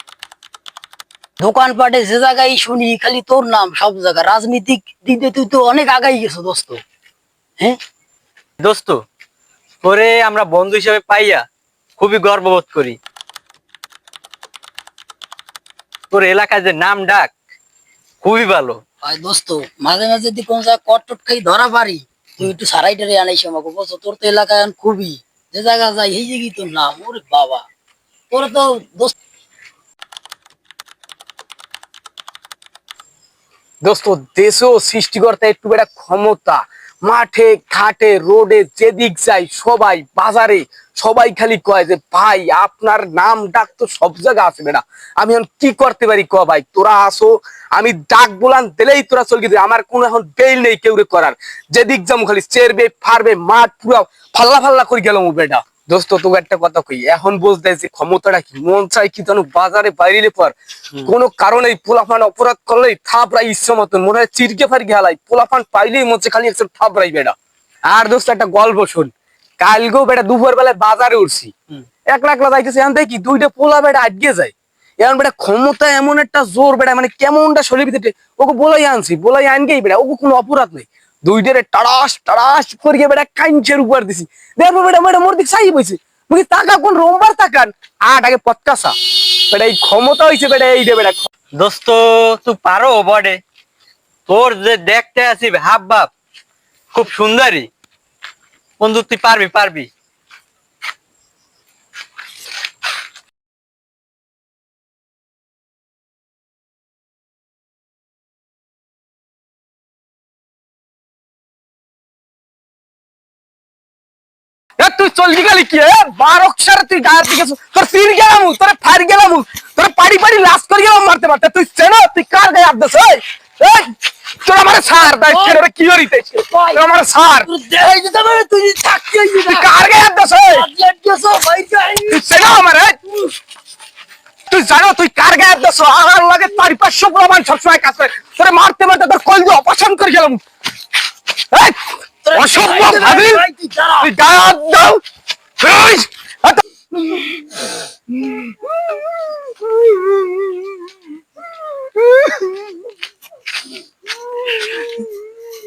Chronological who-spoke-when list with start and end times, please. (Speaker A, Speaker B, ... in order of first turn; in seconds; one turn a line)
Speaker A: 1.4-6.8
Speaker B: 8.6-9.0
Speaker B: 9.8-11.4
Speaker B: 12.0-13.0
Speaker B: 16.1-17.3
Speaker B: 18.2-18.8
Speaker A: 19.0-27.6
Speaker A: 28.3-29.1
Speaker C: 33.9-67.3
Speaker C: 67.9-71.5
Speaker C: 72.1-89.0
Speaker C: 89.5-91.3
Speaker B: 91.6-93.4
Speaker B: 94.3-96.1
Speaker B: 96.9-97.7
Speaker B: 98.8-99.9
Speaker C: 114.8-123.9
Speaker C: 124.4-127.5
Speaker A: 125.2-125.6
Speaker A: 126.5-126.8
Speaker A: 127.4-129.7
Speaker C: 129.5-130.7
Speaker A: 130.5-132.3
Speaker C: 132.1-133.0
Speaker C: 134.5-140.4
Speaker C: 141.5-143.4
Speaker A: 142.2-144.1
Speaker C: 144.0-145.0
Speaker C: 145.6-146.6
Speaker C: 152.2-152.5